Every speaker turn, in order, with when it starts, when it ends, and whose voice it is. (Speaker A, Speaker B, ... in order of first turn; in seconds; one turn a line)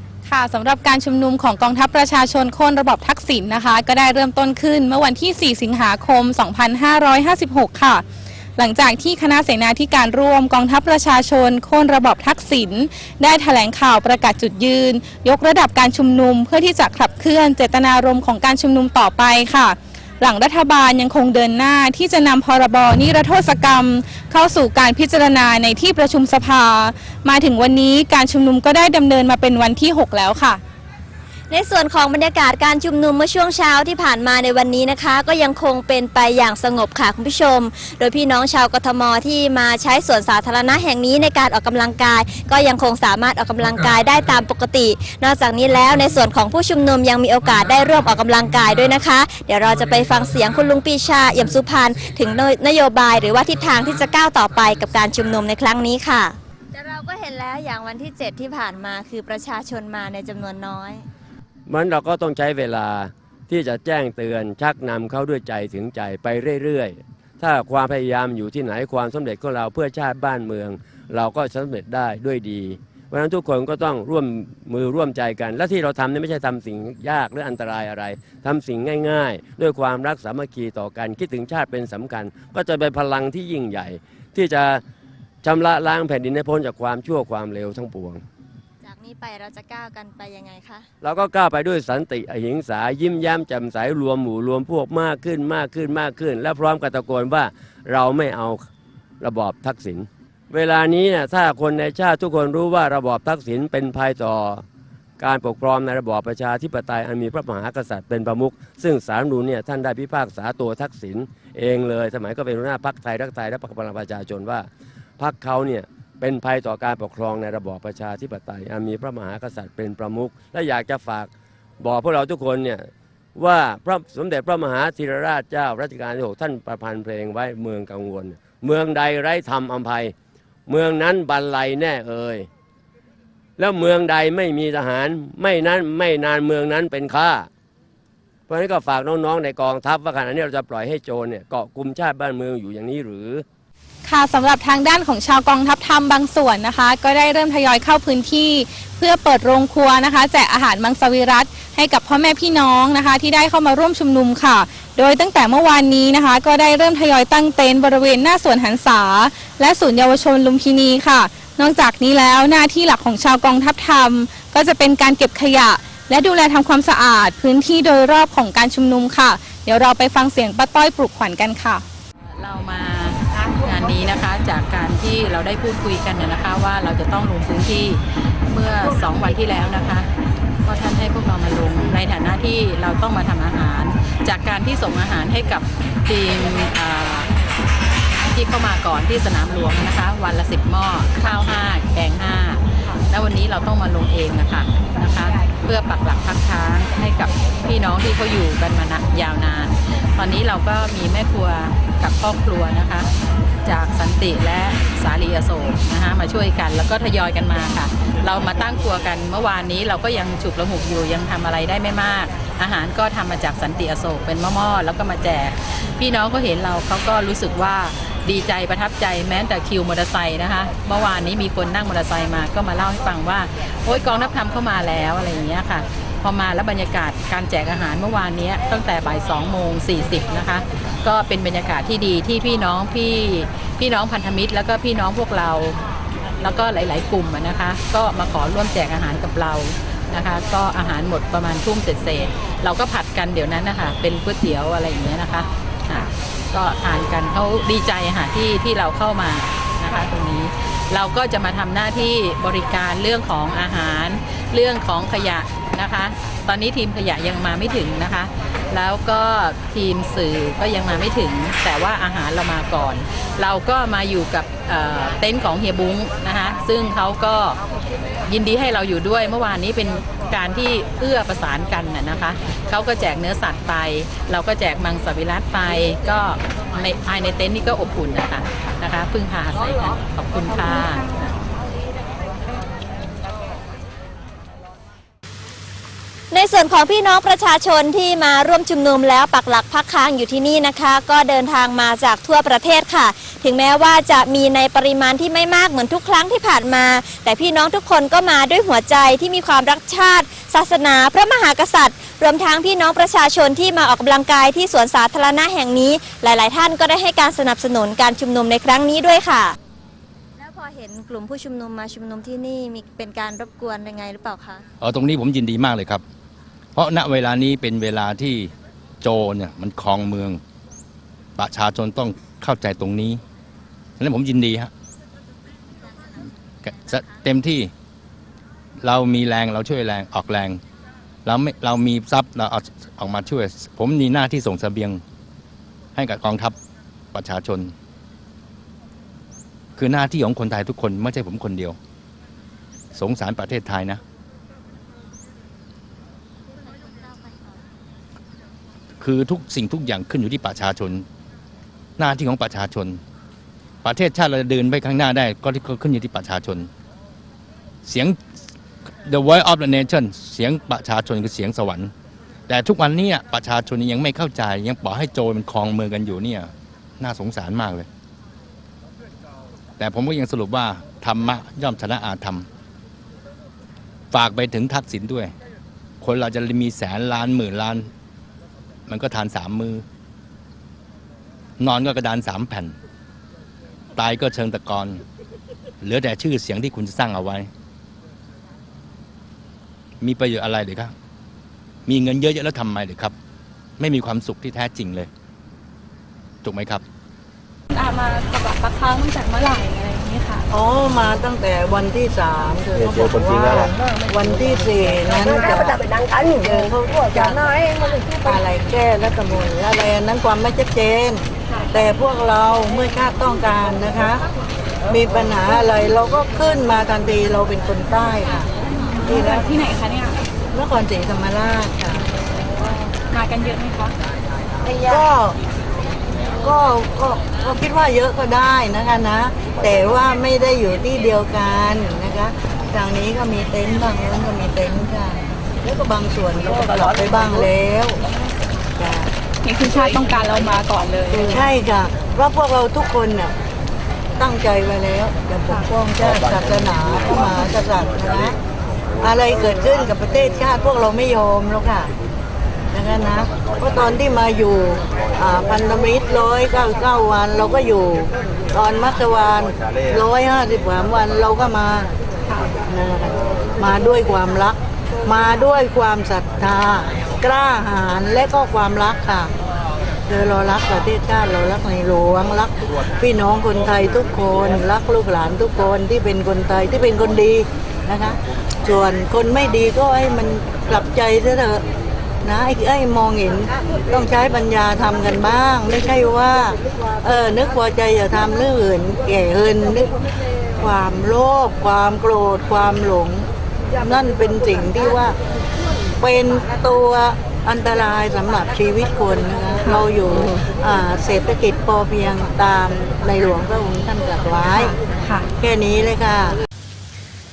Speaker A: 0.3-8.0
Speaker A: 8.6-30.6
Speaker B: 31.5-61.1
Speaker C: 61.7-84.8
Speaker C: 85.4-88.2
Speaker B: 88.8-90.9
Speaker C: 91.0-98.7
Speaker C: 99.2-104.6
Speaker C: 105.2-130.1
Speaker C: 130.7-132.5
Speaker C: 133.6-137.5
Speaker C: 138.5-143.4
Speaker A: 144.0-171.8
Speaker D: 172.4-180.1
Speaker D: 180.6-187.3
Speaker D: 188.3-203.1
Speaker D: 203.6-235.8
Speaker D: 236.4-267.6
Speaker D: 268.3-281.1
Speaker A: 280.5-281.5
Speaker B: 286.3-309.6
Speaker B: 310.4-314.6
Speaker E: 314.8-316.0
Speaker E: 316.8-320.4
Speaker E: 321.4-323.2
Speaker E: 324.0-324.7
Speaker E: 326.6-327.7
Speaker E: 328.8-330.6
Speaker E: 331.2-335.0
Speaker E: 335.9-336.6
Speaker E: 337.1-337.7
Speaker E: 339.8-341.8
Speaker E: 342.9-344.0
Speaker E: 349.0-351.1
Speaker E: 352.0-353.0
Speaker E: 353.8-356.7
Speaker E: 357.8-358.2
Speaker E: 359.0-361.9
Speaker E: 362.5-367.9
Speaker E: 369.8-372.5
Speaker E: 374.1-375.3
Speaker E: 376.0-377.9
Speaker E: 378.9-379.9
Speaker E: 381.6-382.8
Speaker E: 384.0-385.0
Speaker E: 385.8-387.5
Speaker E: 390.0-390.9
Speaker E: 391.9-393.1
Speaker E: 393.8-395.1
Speaker E: 396.4-396.8
Speaker A: 397.7-400.5
Speaker F: 400.5-407.5
Speaker F: 408.2-414.2
Speaker F: 414.9-418.5
Speaker A: 419.0-420.2
Speaker F: 419.1-419.6
Speaker F: 420.5-422.1
Speaker A: 423.1-423.9
Speaker F: 424.7-425.4
Speaker F: 426.4-438.0
Speaker F: 438.8-439.1
Speaker A: 439.4-441.5
Speaker F: 441.2-443.4
Speaker F: 444.2-448.4
Speaker F: 449.0-451.9
Speaker F: 452.7-461.9
Speaker F: 462.6-469.3
Speaker F: 470.1-481.6
Speaker F: 482.2-489.9
Speaker F: 490.6-495.2
Speaker F: 496.0-504.8
Speaker A: 505.0-505.3
Speaker F: 505.4-506.4